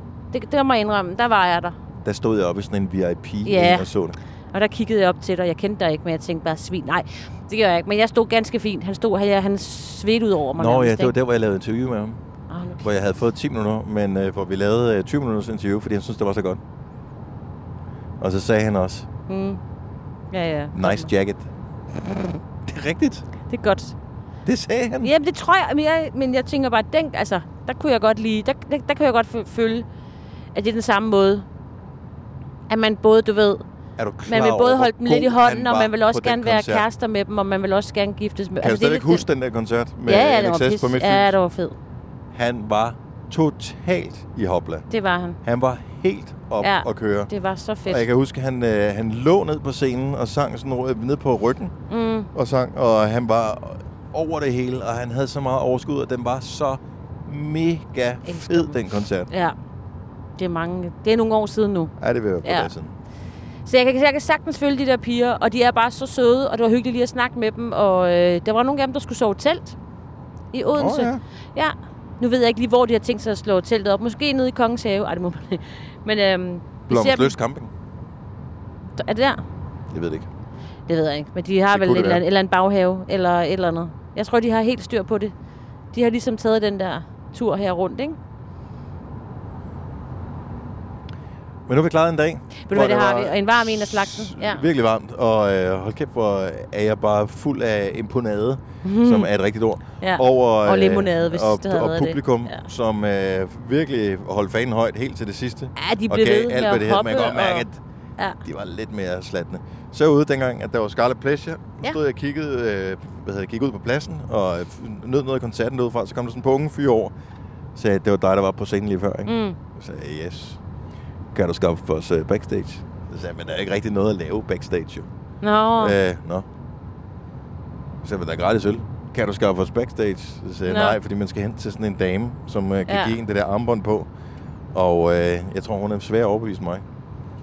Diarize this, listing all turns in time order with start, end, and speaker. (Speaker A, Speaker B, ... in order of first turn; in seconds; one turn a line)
Speaker A: 0.3-1.8
Speaker B: 2.0-4.2
Speaker A: 3.4-3.9
Speaker A: 4.5-11.1
Speaker B: 10.6-12.2
Speaker A: 12.5-12.9
Speaker B: 12.8-16.6
Speaker B: 18.2-19.1
Speaker A: 19.3-19.6
Speaker A: 20.3-21.1
Speaker B: 20.7-21.5
Speaker B: 22.6-23.2
Speaker A: 23.5-23.9
Speaker B: 24.4-25.1
Speaker A: 25.0-29.9
Speaker A: 30.5-31.4
Speaker A: 32.7-33.6
Speaker B: 34.0-36.9
Speaker A: 34.3-39.2
Speaker B: 38.6-41.4
Speaker A: 40.0-41.8
Speaker B: 42.3-44.9
Speaker A: 44.9-45.4
Speaker B: 45.4-47.3
Speaker A: 46.6-48.0
Speaker B: 47.9-51.7
Speaker A: 51.9-52.3
Speaker B: 52.3-59.3
Speaker A: 58.2-58.8
Speaker A: 59.3-59.5
Speaker A: 60.4-61.9
Speaker B: 62.0-62.9
Speaker A: 62.4-62.7
Speaker A: 63.6-69.8
Speaker A: 70.5-77.3
Speaker B: 70.7-71.2
Speaker B: 76.9-77.7
Speaker A: 79.0-79.4
Speaker B: 79.9-80.3
Speaker A: 80.9-85.3
Speaker B: 81.7-82.2
Speaker A: 85.9-88.2
Speaker B: 91.7-107.8
Speaker A: 92.6-94.6
Speaker A: 98.8-99.3
Speaker A: 100.0-102.6
Speaker A: 105.8-107.7
Speaker B: 108.4-117.1
Speaker B: 117.7-120.6
Speaker A: 119.2-119.6
Speaker B: 121.3-125.1
Speaker A: 125.4-126.0
Speaker B: 125.8-126.5
Speaker B: 128.0-134.1
Speaker A: 130.7-131.0
Speaker A: 132.9-133.1
Speaker B: 134.7-136.8